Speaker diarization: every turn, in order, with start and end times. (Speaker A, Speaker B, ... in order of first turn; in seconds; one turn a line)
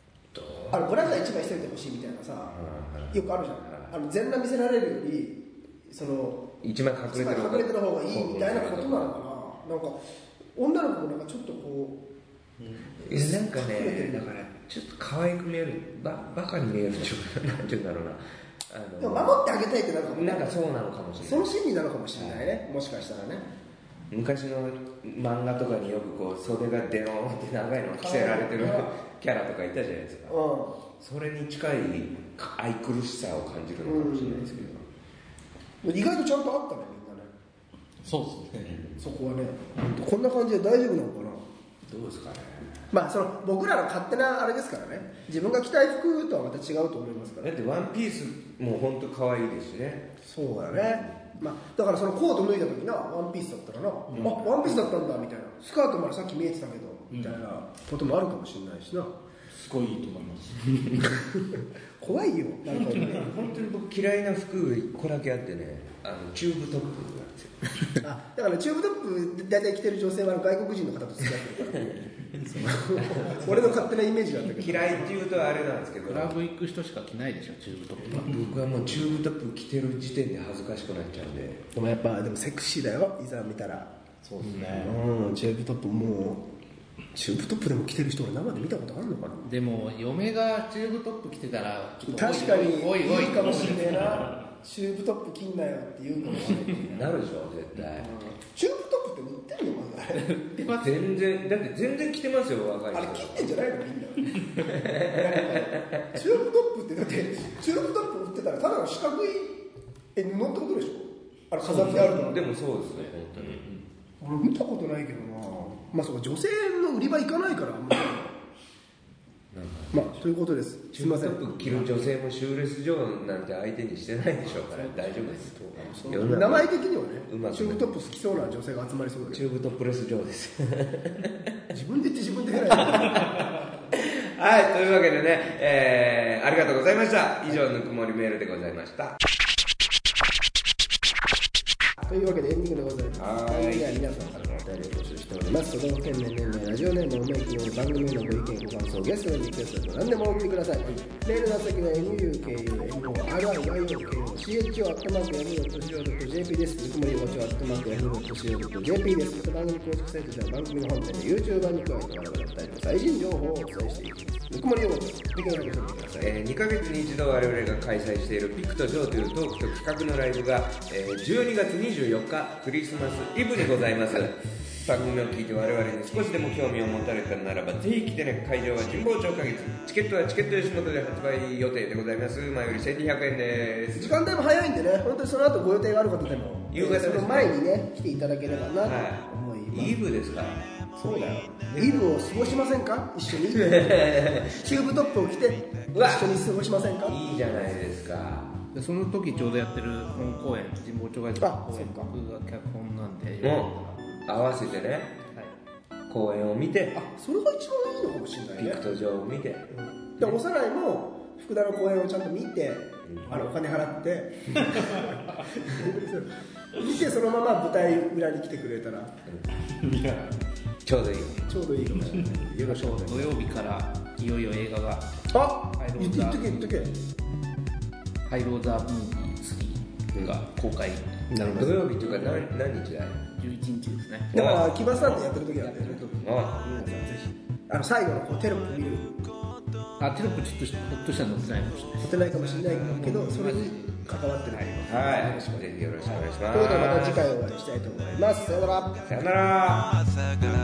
Speaker A: 0.3-1.1
Speaker B: 0.7-2.5
Speaker A: 2.5-3.9
Speaker B: 3.1-6.5
Speaker A: 6.6-9.1
Speaker B: 7.1-10.0
Speaker B: 10.6-12.0
Speaker C: 12.6-12.9
Speaker A: 13.0-19.4
Speaker B: 13.0-14.5
Speaker B: 19.0-20.6
Speaker A: 20.1-21.5
Speaker B: 21.2-23.4
Speaker A: 22.1-22.6
Speaker A: 24.1-30.4
Speaker B: 27.9-28.9
Speaker B: 30.3-30.8
Speaker A: 31.0-34.7
Speaker B: 33.8-34.8
Speaker B: 35.8-37.3
Speaker C: 38.0-38.8
Speaker A: 38.7-39.0
Speaker B: 39.0-41.4
Speaker A: 41.9-42.9
Speaker B: 42.9-47.5
Speaker A: 47.4-50.1
Speaker B: 50.2-59.1
Speaker C: 54.1-54.4
Speaker C: 57.1-57.4
Speaker C: 59.5-61.1
Speaker B: 62.0-63.4
Speaker A: 63.1-67.7
Speaker B: 68.0-75.1
Speaker C: 72.3-72.8
Speaker A: 73.0-73.9
Speaker A: 74.5-76.4
Speaker D: 76.0-78.4
Speaker A: 78.1-81.7
Speaker B: 81.7-83.9
Speaker C: 84.2-85.0
Speaker B: 84.7-86.4
Speaker B: 87.1-89.4
Speaker D: 89.4-94.2
Speaker B: 92.1-97.1
Speaker A: 96.8-98.1
Speaker B: 98.0-100.3
Speaker D: 100.2-101.0
Speaker A: 100.7-103.5
Speaker B: 102.9-109.6
Speaker A: 104.6-106.1
Speaker B: 110.1-112.5
Speaker A: 111.6-113.8
Speaker B: 114.2-118.3
Speaker A: 119.5-120.1
Speaker B: 119.9-121.8
Speaker A: 120.9-126.7
Speaker D: 124.4-126.2
Speaker B: 126.0-129.4
Speaker A: 127.3-127.8
Speaker A: 129.3-131.3
Speaker B: 131.7-133.5
Speaker A: 132.8-139.2
Speaker B: 142.0-166.4
Speaker A: 143.2-143.9
Speaker A: 166.2-184.2
Speaker B: 183.9-190.0
Speaker A: 186.7-187.5
Speaker A: 188.8-190.6
Speaker B: 191.0-197.2
Speaker A: 193.5-194.7
Speaker A: 195.9-198.5
Speaker D: 198.7-204.0
Speaker B: 201.4-202.1
Speaker A: 203.4-203.7
Speaker A: 204.2-205.2
Speaker A: 206.1-207.0
Speaker B: 206.9-208.8
Speaker A: 208.6-209.7
Speaker B: 209.7-219.1
Speaker A: 213.1-213.3
Speaker C: 214.6-215.2
Speaker C: 219.6-220.3
Speaker A: 220.8-221.4
Speaker B: 221.5-223.3
Speaker D: 222.6-225.1
Speaker B: 225.3-226.9
Speaker D: 225.8-226.6
Speaker D: 228.3-231.2
Speaker B: 231.3-231.8
Speaker A: 231.5-233.3
Speaker D: 233.3-234.3
Speaker A: 234.3-236.6
Speaker B: 234.3-239.2
Speaker D: 240.0-244.0
Speaker B: 242.1-249.1
Speaker A: 244.5-247.3
Speaker A: 249.1-250.4